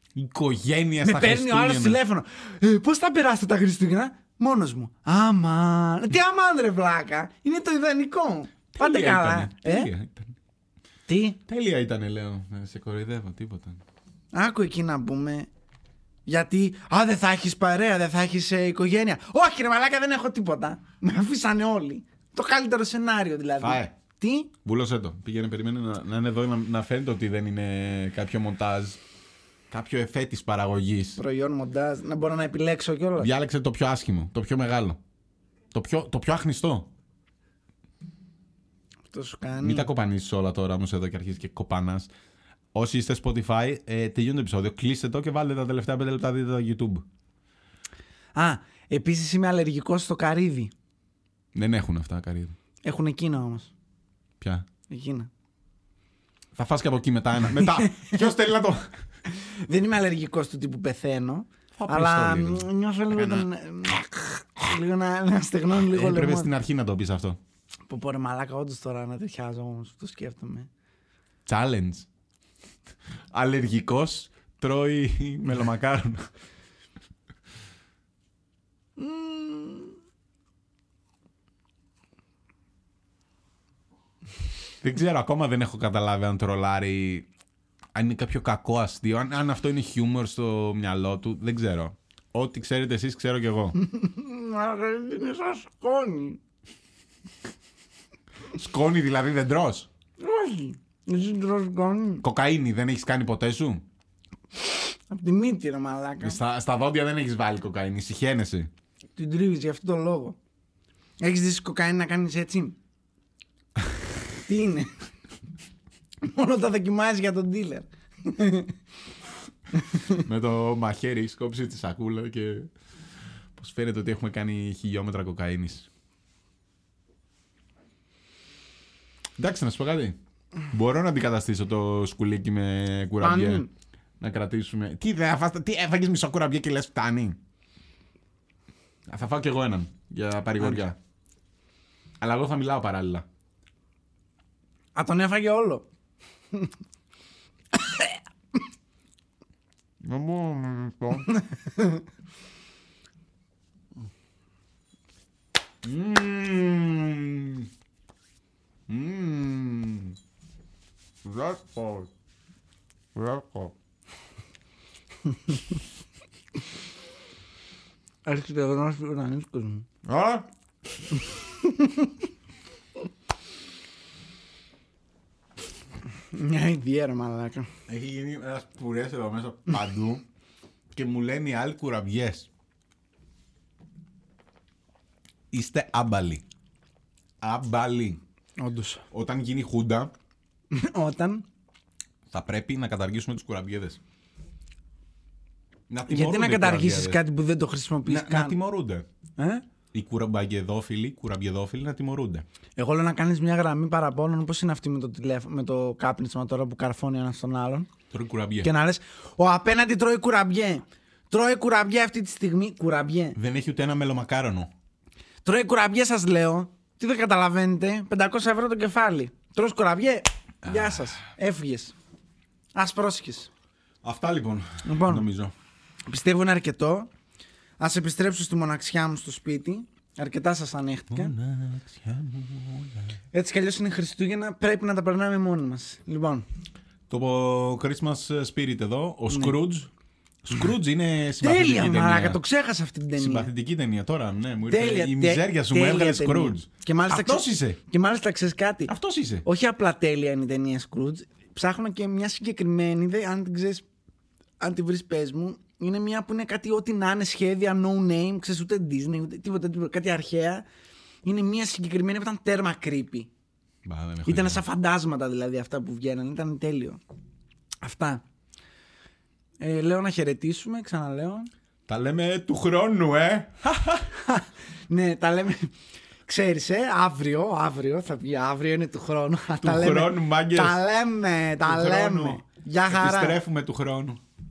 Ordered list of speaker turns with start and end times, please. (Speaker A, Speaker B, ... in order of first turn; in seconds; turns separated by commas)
Speaker A: 0.1-2.0, Speaker B: 1.0-9.9, Speaker A: 8.7-10.3, Speaker B: 11.1-11.4, Speaker A: 11.4-13.8, Speaker B: 14.3-15.5, Speaker B: 16.2-24.5, Speaker A: 23.6-23.9, Speaker A: 24.6-29.0, Speaker A: 29.7-31.2, Speaker B: 31.2-33.3, Speaker A: 33.2-35.0, Speaker A: 35.7-36.9, Speaker B: 39.1-39.9, Speaker A: 39.6-42.1, Speaker A: 42.7-47.0, Speaker B: 48.4-50.7, Speaker A: 51.5-52.5, Speaker B: 52.8-53.7, Speaker A: 54.4-54.6, Speaker B: 54.9-55.3, Speaker A: 56.5-59.0, Speaker B: 57.5-58.2, Speaker B: 59.2-66.5, Speaker A: 61.8-63.5, Speaker A: 65.7-67.4, Speaker B: 67.9-70.7, Speaker A: 71.5-72.1, Speaker A: 73.3-76.3, Speaker B: 79.0-80.0, Speaker A: 84.8-87.3, Speaker A: 87.9-93.8, Speaker B: 93.7-96.4, Speaker A: 98.5-99.9, Speaker B: 100.2-102.2, Speaker A: 102.2-103.8, Speaker B: 104.7-106.4, Speaker A: 106.2-108.7, Speaker B: 109.2-110.4, Speaker B: 111.2-112.8, Speaker B: 114.4-114.9, Speaker B: 116.2-118.7, Speaker B: 119.7-120.2, Speaker A: 120.1-122.7, Speaker A: 123.5-125.9, Speaker A: 129.4-130.2, Speaker A: 130.7-133.7, Speaker B: 133.2-133.7, Speaker A: 134.2-137.4, Speaker A: 139.1-141.0, Speaker A: 142.2-143.2, Speaker B: 144.9-145.9, Speaker B: 147.7-148.2, Speaker A: 150.0-151.3, Speaker B: 151.3-152.0, Speaker A: 155.8-157.7, Speaker A: 158.9-160.2, Speaker A: 161.2-162.1, Speaker A: 163.1-163.7, Speaker B: 165.3-165.6, Speaker B: 168.2-169.9, Speaker A: 170.0-170.5, Speaker B: 171.2-172.2, Speaker B: 176.3-177.7, Speaker A: 177.9-180.2, Speaker A: 180.9-182.5, Speaker A: 185.5-186.4, Speaker A: 187.4-188.2, Speaker B: 188.6-189.0, Speaker A: 189.1-190.1, Speaker B: 190.7-191.4, Speaker A: 192.3-194.0, Speaker A: 195.9-197.2, Speaker B: 196.1-198.6, Speaker A: 198.1-199.1, Speaker B: 199.4-199.6, Speaker A: 199.9-202.4, Speaker B: 202.8-207.9, Speaker A: 208.1-208.7, Speaker B: 208.6-213.4, Speaker A: 213.3-214.7, Speaker B: 215.4-221.9, Speaker A: 220.6-221.2, Speaker B: 222.7-223.5, Speaker A: 224.0-225.5, Speaker B: 224.8-225.3, Speaker B: 226.1-227.1, Speaker B: 227.8-231.3, Speaker A: 231.1-233.2, Speaker B: 233.3-236.4, Speaker A: 237.1-239.9, Speaker B: 239.3-239.6, Speaker A: 240.4-242.4, Speaker B: 241.4-243.5, Speaker A: 243.2-247.8, Speaker B: 244.7-248.9, Speaker A: 248.9-249.4, Speaker B: 249.4-253.8, Speaker B: 254.6-260.6, Speaker B: 261.2-263.3, Speaker A: 263.8-264.6, Speaker B: 264.2-267.0, Speaker B: 267.8-268.2, Speaker B: 269.6-271.5, Speaker A: 271.9-274.1, Speaker B: 274.1-275.7, Speaker B: 276.3-283.4, Speaker A: 279.6-280.8, Speaker A: 281.6-284.2